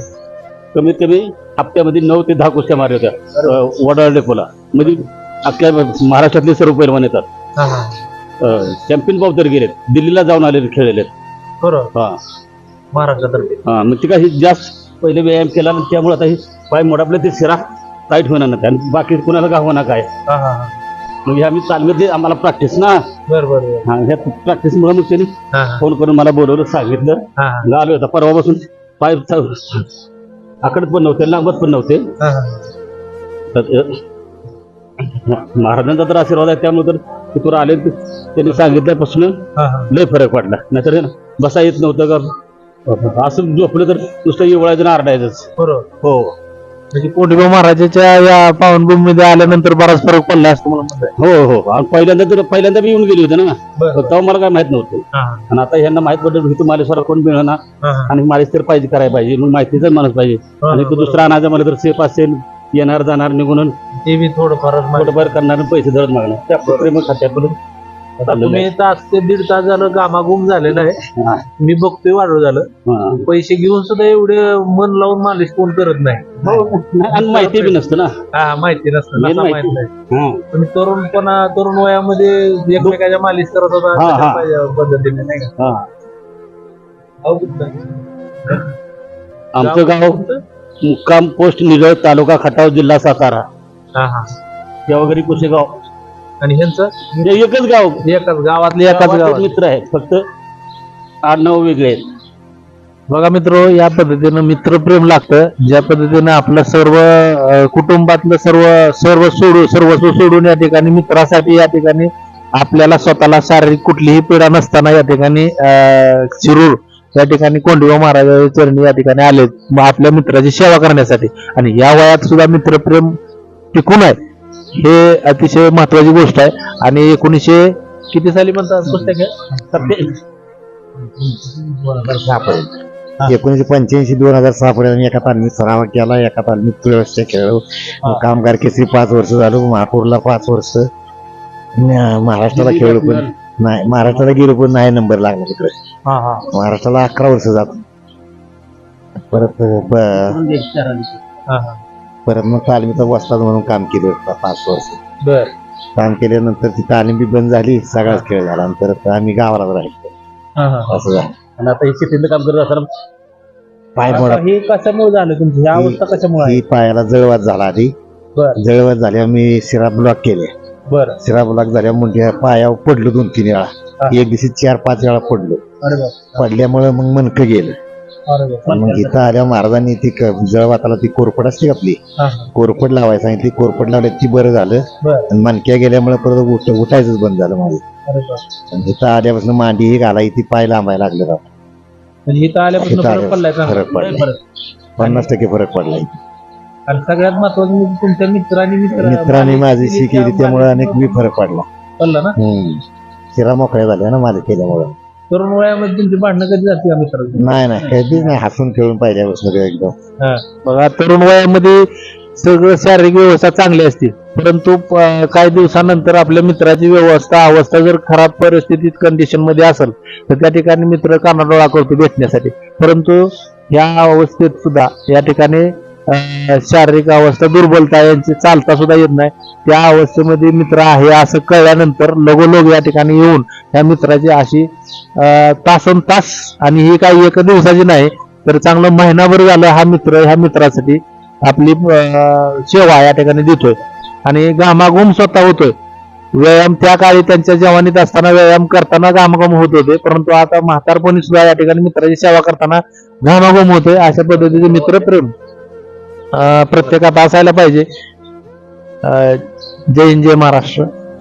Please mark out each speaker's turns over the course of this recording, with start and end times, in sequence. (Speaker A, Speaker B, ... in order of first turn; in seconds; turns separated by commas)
Speaker A: 0.7-7.2, Speaker B: 7.6-8.0, Speaker A: 8.4-11.1, Speaker B: 11.6-11.9, Speaker B: 12.9-13.6, Speaker A: 13.7-20.1, Speaker B: 20.3-20.7, Speaker A: 21.3-23.0, Speaker B: 23.3-23.9, Speaker A: 23.9-29.9, Speaker B: 25.5-25.9, Speaker B: 27.4-27.6, Speaker A: 30.6-32.1, Speaker B: 32.2-32.7, Speaker A: 33.5-34.0, Speaker A: 35.0-39.3, Speaker B: 39.5-39.9, Speaker A: 39.9-42.3, Speaker A: 42.9-45.5, Speaker B: 45.6-45.9, Speaker A: 46.0-46.3, Speaker B: 46.9-51.1, Speaker A: 51.2-63.7, Speaker B: 53.8-54.1, Speaker B: 55.1-55.5, Speaker B: 57.8-58.1, Speaker B: 60.6-61.2, Speaker B: 64.0-65.3, Speaker A: 64.9-67.6, Speaker B: 68.2-71.0, Speaker A: 68.3-68.7, Speaker A: 71.2-71.5, Speaker B: 71.6-77.8, Speaker A: 72.9-73.2, Speaker A: 76.4-78.1, Speaker B: 78.3-79.9, Speaker A: 79.2-80.4, Speaker B: 80.5-85.5, Speaker A: 83.9-84.5, Speaker A: 85.6-85.8, Speaker B: 87.2-88.0, Speaker A: 89.5-90.2, Speaker B: 89.6-90.4, Speaker A: 90.8-93.4, Speaker B: 94.0-94.3, Speaker A: 94.9-95.8, Speaker B: 96.4-97.3, Speaker A: 97.2-98.0, Speaker B: 98.0-99.5, Speaker A: 98.9-100.2, Speaker A: 101.2-102.0, Speaker B: 103.1-123.1, Speaker B: 123.7-124.2, Speaker B: 124.7-129.9, Speaker A: 129.7-130.1, Speaker B: 131.2-132.2, Speaker C: 132.0-132.7, Speaker C: 133.2-140.9, Speaker C: 141.8-145.7, Speaker A: 142.5-143.3, Speaker B: 146.1-146.4, Speaker C: 146.5-147.8, Speaker C: 149.3-150.4, Speaker A: 150.1-151.2, Speaker B: 151.5-151.8, Speaker C: 152.2-155.0, Speaker B: 155.2-155.5, Speaker C: 155.9-160.1, Speaker B: 160.6-160.9, Speaker C: 160.9-161.3, Speaker A: 161.6-162.9, Speaker C: 163.9-164.4, Speaker B: 164.1-166.6, Speaker C: 165.7-167.9, Speaker C: 168.6-170.5, Speaker B: 170.9-171.2, Speaker C: 171.2-175.6, Speaker B: 175.8-176.4, Speaker C: 176.3-177.8, Speaker B: 178.3-179.2, Speaker C: 178.7-182.0, Speaker B: 182.2-182.5, Speaker C: 182.5-187.8, Speaker B: 185.0-185.3, Speaker B: 188.1-188.4, Speaker C: 188.7-191.4, Speaker B: 192.3-194.1, Speaker C: 192.8-194.3, Speaker A: 193.9-194.3, Speaker C: 195.0-196.2, Speaker B: 195.0-195.2, Speaker B: 196.9-201.2, Speaker C: 198.9-201.7, Speaker B: 202.0-202.3, Speaker C: 202.4-202.8, Speaker C: 203.3-204.9, Speaker B: 205.3-207.4, Speaker C: 207.3-209.9, Speaker B: 210.2-245.7, Speaker B: 246.3-255.3, Speaker B: 256.3-257.9, Speaker B: 259.0-260.9